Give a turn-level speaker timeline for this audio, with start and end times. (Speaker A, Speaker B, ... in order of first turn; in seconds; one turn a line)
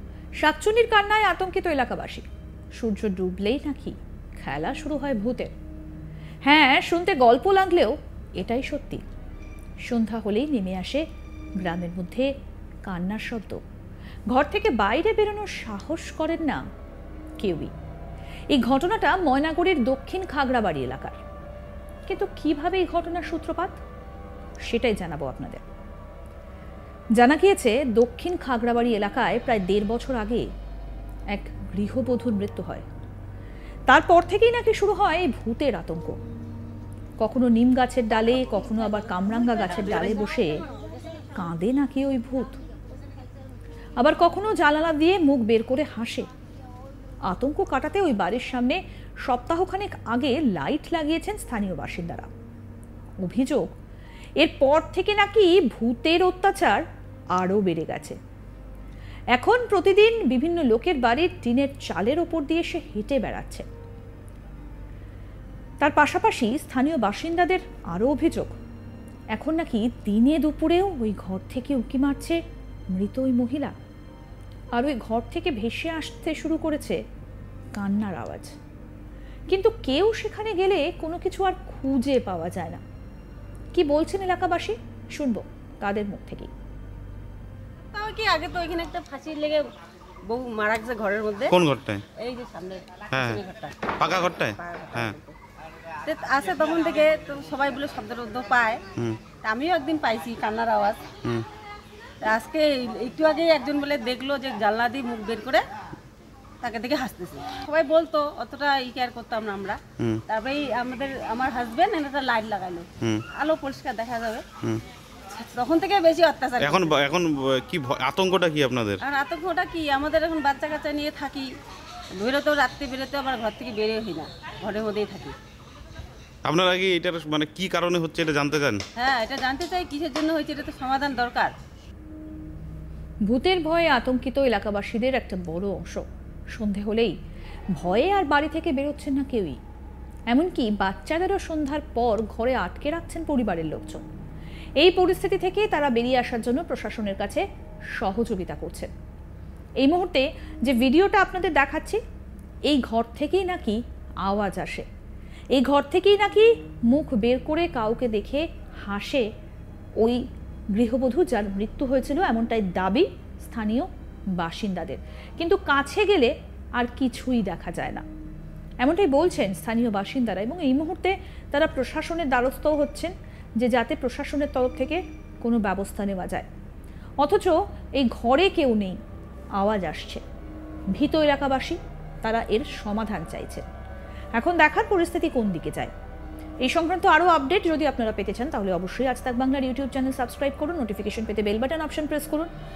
Speaker A: 0.4-2.2
Speaker A: 2.8-5.5
Speaker A: 6.5-9.0
Speaker A: 9.9-11.0
Speaker A: 11.6-12.3
Speaker A: 12.9-13.6
Speaker A: 14.3-16.6
Speaker A: 17.4-17.7
Speaker A: 18.5-21.2
Speaker A: 22.1-23.8
Speaker A: 24.7-25.6
Speaker A: 27.2-30.5
Speaker A: 31.3-32.9
Speaker A: 33.9-36.2
Speaker A: 37.2-40.6
Speaker A: 41.4-42.6
Speaker A: 44.0-46.3
Speaker A: 47.3-52.3
Speaker A: 53.2-53.7
Speaker A: 54.4-56.8
Speaker A: 57.4-58.2
Speaker A: 59.3-63.7
Speaker A: 65.8-68.5
Speaker A: 69.3-72.4
Speaker A: 72.9-73.8
Speaker A: 74.8-77.0
Speaker A: 77.8-78.5
Speaker A: 79.5-82.8
Speaker A: 83.7-86.5
Speaker B: 87.9-89.7
Speaker B: 90.3-91.5
Speaker C: 91.5-92.0
Speaker B: 92.2-94.0
Speaker C: 93.1-93.4
Speaker C: 94.0-95.2
Speaker B: 94.5-95.3
Speaker B: 96.0-98.8
Speaker B: 99.4-101.1
Speaker B: 102.2-105.6
Speaker B: 106.6-114.5
Speaker B: 115.3-117.0
Speaker C: 116.6-119.0
Speaker B: 119.0-121.5
Speaker B: 122.1-125.3
Speaker C: 126.5-128.8
Speaker B: 129.0-131.5
Speaker A: 133.3-137.2
Speaker A: 137.8-139.6
Speaker A: 140.3-144.0
Speaker A: 144.8-147.4
Speaker A: 148.0-148.9
Speaker A: 149.8-152.0
Speaker A: 152.7-154.9
Speaker A: 155.5-159.3
Speaker A: 160.7-168.0
Speaker A: 168.8-176.5
Speaker A: 177.2-179.0
Speaker A: 179.6-180.2
Speaker A: 180.9-183.7
Speaker A: 184.4-185.9
Speaker A: 186.6-192.5